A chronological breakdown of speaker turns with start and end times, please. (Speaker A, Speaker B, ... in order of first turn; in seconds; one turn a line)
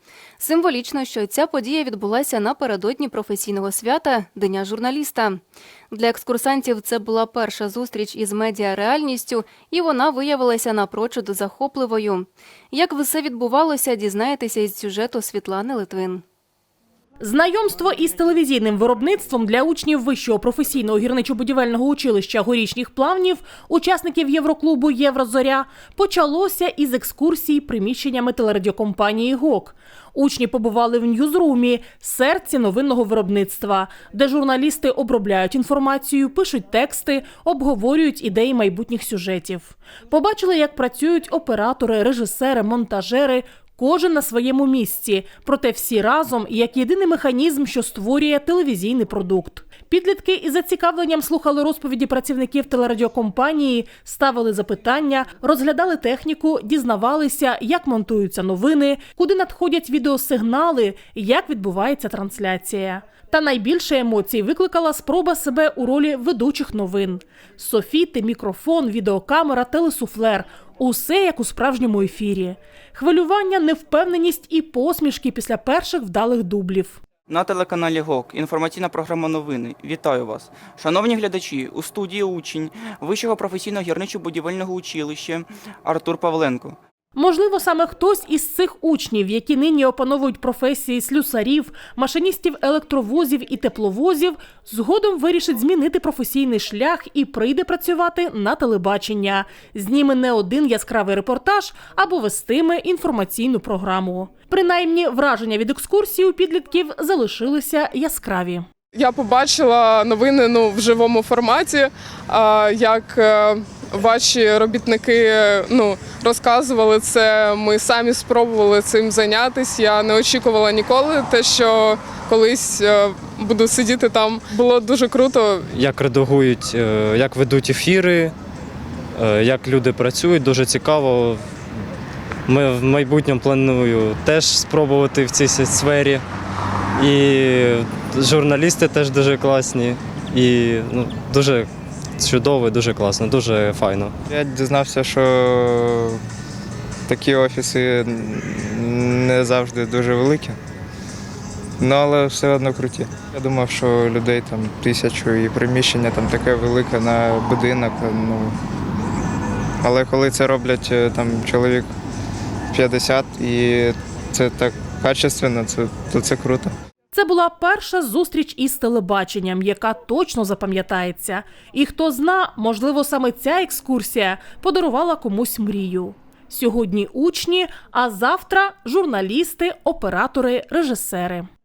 Speaker A: 0.4-16.2
Speaker B: 17.2-77.0
Speaker C: 77.3-86.8
Speaker B: 87.1-108.7
Speaker D: 108.9-125.7
Speaker E: 125.7-128.3
Speaker E: 129.1-131.4
Speaker E: 132.5-136.2
Speaker E: 137.0-144.1
Speaker F: 144.3-146.2
Speaker F: 147.1-150.6
Speaker F: 151.8-158.5
Speaker F: 159.8-161.9
Speaker F: 162.7-166.7
Speaker B: 167.1-181.5